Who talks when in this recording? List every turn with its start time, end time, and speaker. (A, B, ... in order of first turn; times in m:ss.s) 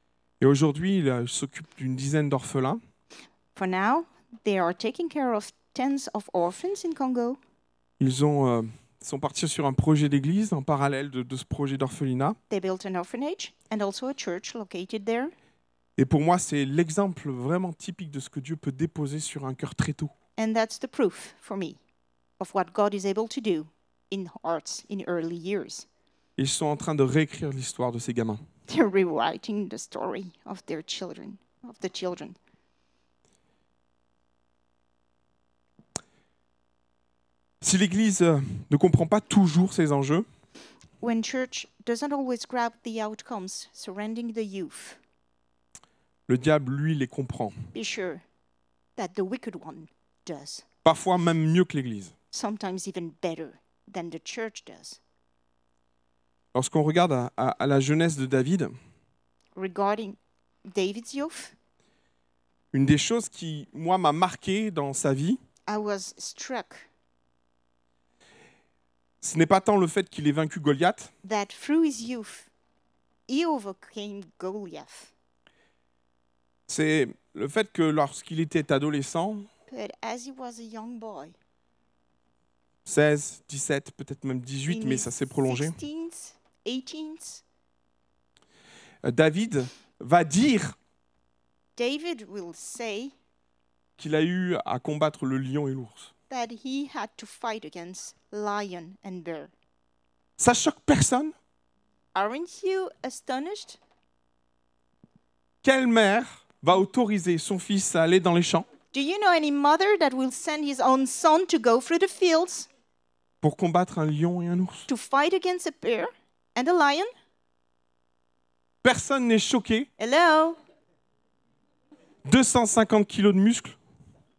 0:00.4-0:02.8 A
0:03.6-0:07.4 B
0:08.0-0:12.4 A
0:12.5-0:15.3 B
0:16.0-0:20.1 A
0:20.4-0:21.8 B
0:22.4-0:25.9 B
0:26.4-0:28.4 A
0:28.7-0:32.4 B
0:37.6-0:40.3 A
0:41.0-0:45.0 B
0:46.3-0:47.6 A
0:47.7-0:48.2 B
0:49.0-0:50.6 B
0:50.8-0:52.1 A
0:52.3-0:55.0 B
0:56.5-0:58.8 A
0:59.6-1:01.6 B
1:02.7-1:05.4 A
1:05.6-1:06.9 B
1:09.2-1:11.1 A
1:11.2-1:12.5 B
1:13.3-1:15.1 B
1:16.7-1:19.5 A
1:19.7-1:21.4 B
1:22.8-1:25.8 A
1:24.7-1:27.4 B
1:29.0-1:30.8 A
1:31.8-1:33.1 B
1:34.0-1:36.1 A
1:36.3-1:39.5 B
1:40.4-1:41.3 A
1:42.1-1:43.8 B
1:45.6-1:48.7 A
1:48.9-1:52.7 B
1:53.4-1:54.9 A
1:54.9-1:57.1 B
1:58.8-1:59.9 A
2:00.0-2:00.6 B
2:02.2-2:03.8 A